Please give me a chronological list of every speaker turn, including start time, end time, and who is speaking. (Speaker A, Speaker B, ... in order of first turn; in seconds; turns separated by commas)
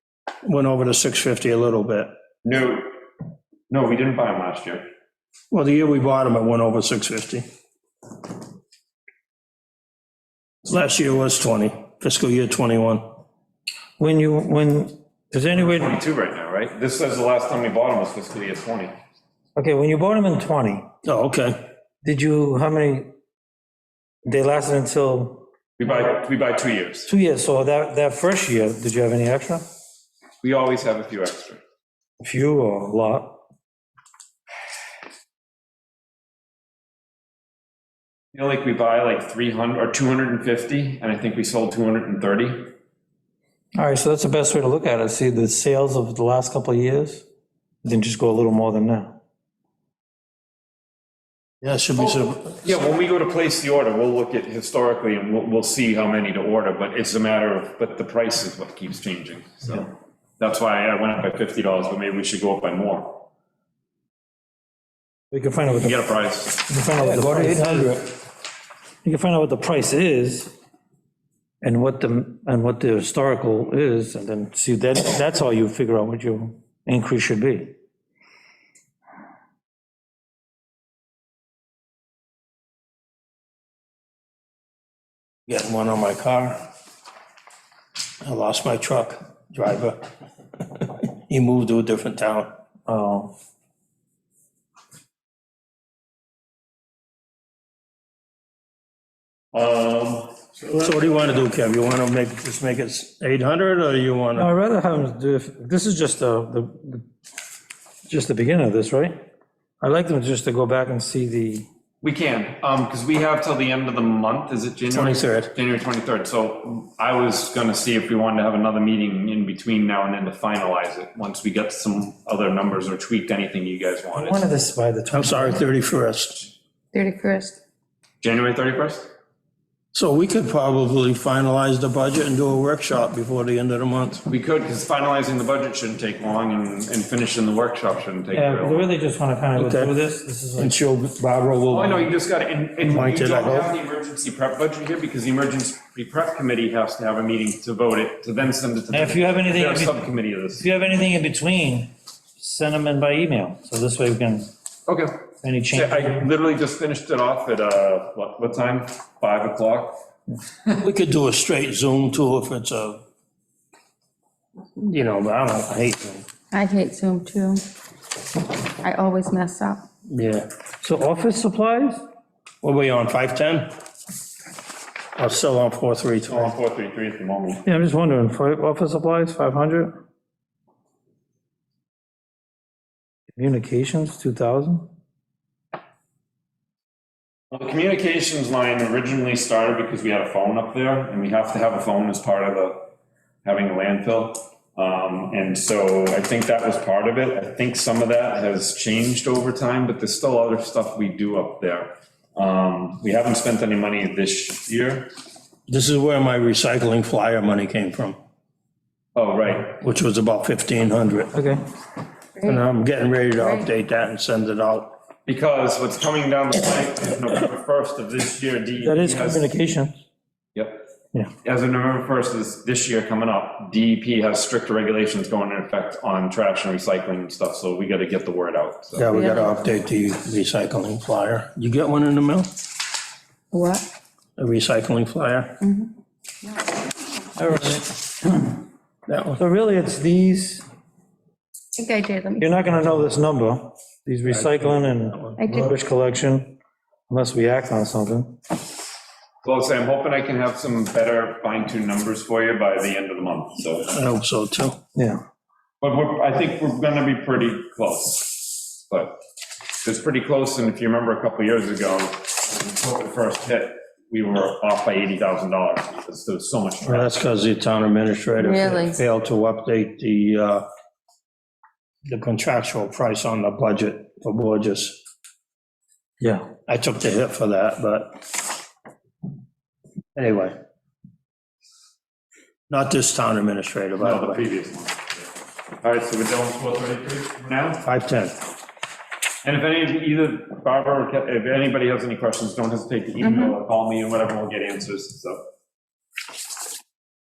Speaker A: 0.4-2.1, Speaker B: 2.4-2.9, Speaker B: 3.7-4.8, Speaker A: 5.5-7.4, Speaker A: 10.6-13.1, Speaker C: 14.0-16.0, Speaker B: 15.6-18.9, Speaker C: 19.6-20.9, Speaker A: 21.0-21.6, Speaker C: 22.0-23.1, Speaker C: 24.2-25.5, Speaker B: 25.8-27.1, Speaker C: 27.1-29.6, Speaker B: 30.4-31.6, Speaker C: 32.2-33.4, Speaker B: 38.3-42.7, Speaker C: 43.8-47.2, Speaker C: 47.8-49.2, Speaker A: 51.6-52.6, Speaker B: 52.1-63.2, Speaker C: 65.3-66.0, Speaker B: 65.7-66.7, Speaker C: 66.7-68.0, Speaker A: 67.0-68.1, Speaker C: 69.0-70.5, Speaker C: 71.6-77.7, Speaker A: 85.5-86.6, Speaker A: 88.2-90.1, Speaker A: 90.6-92.5, Speaker C: 92.9-93.3, Speaker B: 99.5-100.6, Speaker A: 100.8-104.5, Speaker C: 104.4-107.0, Speaker C: 108.1-109.2, Speaker C: 109.8-111.7, Speaker B: 112.0-124.4, Speaker A: 114.9-115.5, Speaker C: 124.1-125.6, Speaker A: 125.1-126.5, Speaker D: 126.9-127.6, Speaker B: 128.2-129.1, Speaker A: 129.9-134.2, Speaker B: 134.3-138.9, Speaker C: 138.3-140.8, Speaker A: 139.5-139.9, Speaker A: 140.6-142.1, Speaker B: 141.7-150.7, Speaker A: 142.8-143.7, Speaker C: 148.9-150.0, Speaker C: 150.6-154.5, Speaker B: 154.9-155.1, Speaker C: 155.4-156.2, Speaker B: 155.7-160.0, Speaker A: 160.8-163.0, Speaker A: 164.8-166.3, Speaker D: 166.5-167.6, Speaker D: 168.8-169.8, Speaker A: 170.1-170.5, Speaker C: 170.8-172.0, Speaker A: 172.6-173.7, Speaker A: 175.2-176.5, Speaker B: 176.3-177.6, Speaker C: 177.6-179.9, Speaker C: 183.3-184.9, Speaker B: 187.5-192.9, Speaker B: 193.4-205.1, Speaker A: 205.7-208.2, Speaker B: 209.1-209.8, Speaker A: 209.8-211.3, Speaker C: 211.3-211.6, Speaker D: 212.3-212.7, Speaker A: 212.4-214.9, Speaker D: 213.4-213.7, Speaker B: 215.2-219.4, Speaker C: 218.8-220.0, Speaker B: 220.5-220.8, Speaker B: 221.4-229.0, Speaker A: 228.9-232.5, Speaker D: 229.1-229.5, Speaker D: 233.5-233.8, Speaker A: 234.4-235.6, Speaker D: 235.6-235.9, Speaker C: 237.4-238.6, Speaker A: 239.1-239.4, Speaker C: 239.4-240.6, Speaker D: 241.8-242.5, Speaker C: 242.4-246.6, Speaker A: 244.3-245.5, Speaker D: 245.4-245.7, Speaker C: 247.1-248.4, Speaker B: 249.4-253.9, Speaker A: 253.9-254.8, Speaker B: 255.8-259.1, Speaker B: 259.8-267.1, Speaker A: 266.8-270.6, Speaker D: 268.4-269.0, Speaker A: 272.1-275.0, Speaker A: 276.7-278.1, Speaker A: 280.1-280.6, Speaker A: 282.7-284.4, Speaker B: 284.0-285.0, Speaker B: 285.8-287.8, Speaker A: 287.8-288.4, Speaker B: 289.4-295.4, Speaker D: 293.2-293.5